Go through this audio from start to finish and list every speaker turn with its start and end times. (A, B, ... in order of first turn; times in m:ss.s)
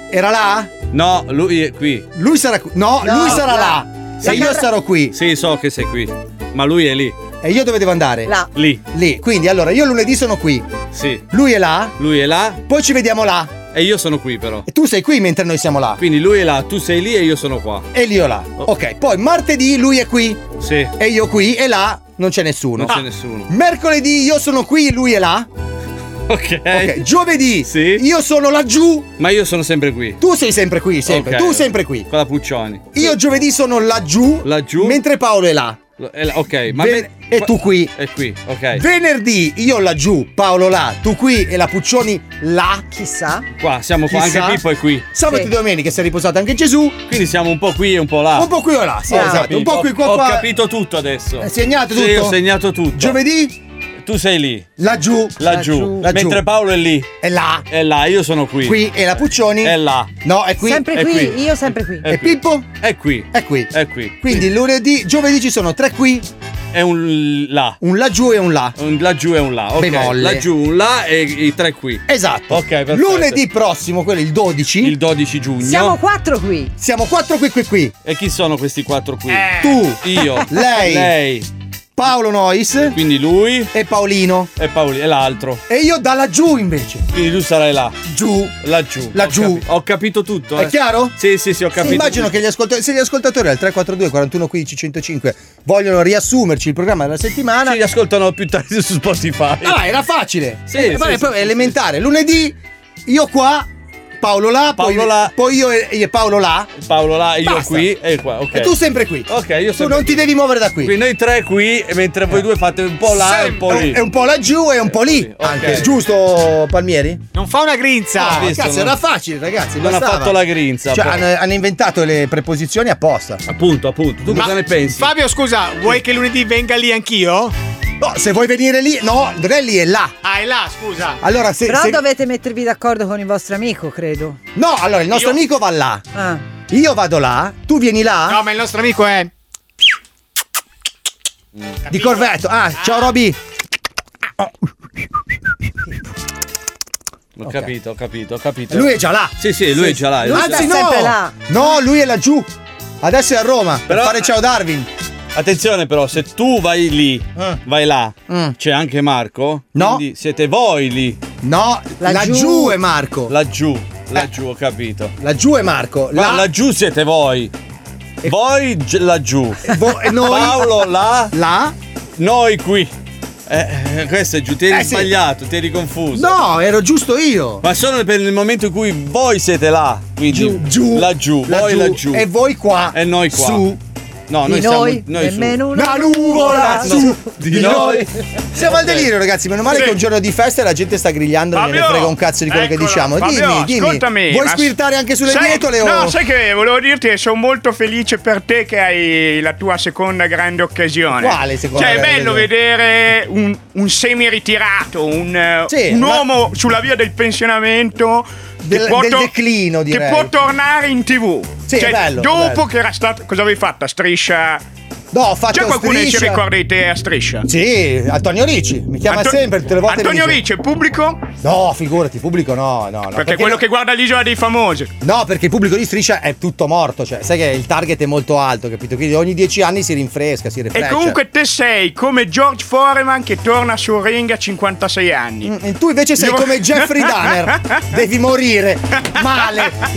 0:00.1-0:00.7 A
0:00.9-0:02.1 B
0:02.2-0:05.2 A
0:03.0-0:04.7 C
0:04.2-0:04.6 B
0:05.1-0:07.2 B
0:07.4-0:08.3 A
0:08.5-0:08.8 B
0:08.9-0:10.7 A
0:10.9-0:11.2 B
0:11.3-0:12.0 A
0:12.0-0:12.6 B
0:12.7-0:13.6 A
0:13.7-0:14.7 B
0:14.7-0:16.0 A
0:16.0-0:17.9 B
0:17.9-0:20.4 A
0:20.6-0:20.9 B
0:21.0-0:25.5 A
0:22.8-0:23.5 B
0:26.3-0:27.0 B
0:26.7-0:29.1 A
0:27.7-0:28.0 B
0:29.2-0:30.2 B
0:30.2-0:32.1 A
0:31.1-0:33.0 B
0:32.9-0:35.8 A
0:34.4-0:35.0 B
0:36.0-0:38.8 B
0:36.7-0:37.9 A
0:38.8-0:42.8 A
0:42.9-0:43.5 C
0:43.6-0:45.0 B
0:44.1-0:47.0 A
0:47.1-0:48.5 B
0:48.4-0:50.5 A
0:49.1-0:49.5 C
0:49.1-0:53.2 B
0:51.4-0:52.4 A
0:53.0-0:53.6 A
0:54.0-0:54.7 B
0:54.8-0:56.4 A
0:55.4-0:57.1 B
0:55.5-0:56.1 C
0:57.2-0:57.6 A
0:57.7-1:00.1 B
0:58.6-1:00.9 A
1:00.6-1:02.1 C
1:00.9-1:01.4 B
1:02.0-1:04.4 B
1:02.0-1:02.7 A
1:03.3-1:06.3 A
1:06.7-1:07.8 B
1:07.8-1:08.8 A
1:08.8-1:13.4 B
1:09.8-1:10.5 A
1:12.1-1:15.0 A
1:14.8-1:16.0 B
1:15.6-1:16.7 C
1:16.8-1:17.9 A
1:18.0-1:21.5 B
1:19.3-1:19.6 D
1:19.6-1:21.1 A
1:22.0-1:23.0 A
1:22.9-1:23.7 B
1:23.7-1:24.5 A
1:24.6-1:25.6 B
1:25.7-1:27.1 A
1:27.1-1:28.0 B
1:28.0-1:28.6 A
1:28.6-1:32.3 B
1:29.1-1:29.6 A
1:30.6-1:31.2 A
1:31.8-1:37.8 A
1:37.6-1:39.8 B
1:39.6-1:43.7 A
1:40.7-1:41.6 B
1:44.2-1:46.7 A
1:44.8-1:45.3 B
1:46.8-1:48.7 B
1:47.4-1:47.9 A
1:48.5-1:51.0 A
1:49.3-1:50.3 B
1:50.8-1:54.0 B
1:53.1-1:53.8 D
1:53.6-1:57.2 A
1:54.9-1:55.9 B
1:57.3-1:58.4 D
1:58.2-2:03.4 A
1:58.2-1:59.0 B
1:59.8-2:01.3 B
2:03.5-2:05.1 B
2:04.3-2:07.5 D
2:08.0-2:10.1 A
2:10.2-2:11.2 D
2:11.2-2:12.0 A
2:11.7-2:14.4 C
2:14.6-2:16.0 A
2:15.1-2:15.4 D
2:16.1-2:16.4 C
2:16.7-2:18.4 A
2:18.3-2:19.3 D
2:21.9-2:23.1 D
2:21.9-2:23.4 A
2:27.4-2:30.8 B
2:27.4-2:27.7 A
2:28.7-2:32.5 A
2:29.8-2:31.4 C
2:33.0-2:34.9 A
2:33.9-2:34.3 B
2:35.4-2:41.2 B
2:38.3-2:38.5 A
2:39.8-2:40.0 A
2:41.4-2:43.3 A
2:42.0-2:42.8 C
2:43.3-2:45.1 B
2:45.2-2:46.5 A
2:46.1-2:47.5 B
2:48.2-2:51.3 B
2:49.6-2:50.8 A
2:51.3-2:51.8 A
2:52.2-2:52.9 B
2:53.5-2:56.4 B
2:54.7-2:55.1 A
2:56.1-2:57.7 A
2:57.6-3:02.3 B
3:00.3-3:03.8 A
3:02.9-3:03.7 B
3:04.3-3:05.6 B
3:04.4-3:07.4 C
3:05.7-3:16.2 A
3:06.3-3:08.1 B
3:09.7-3:10.0 E
3:11.6-3:29.3 E
3:21.1-3:22.5 A
3:25.7-3:26.3 A
3:28.6-3:30.3 A
3:29.9-3:34.6 E
3:31.7-3:32.6 A
3:35.1-3:36.4 A
3:35.5-3:37.5 E
3:37.4-3:40.4 A
3:39.1-3:41.2 E
3:41.4-3:43.6 A
3:43.2-3:44.9 E
3:45.0-3:51.2 A
3:50.8-3:55.5 E
3:55.4-3:59.8 A
3:56.2-3:57.8 E
3:59.2-3:59.7 E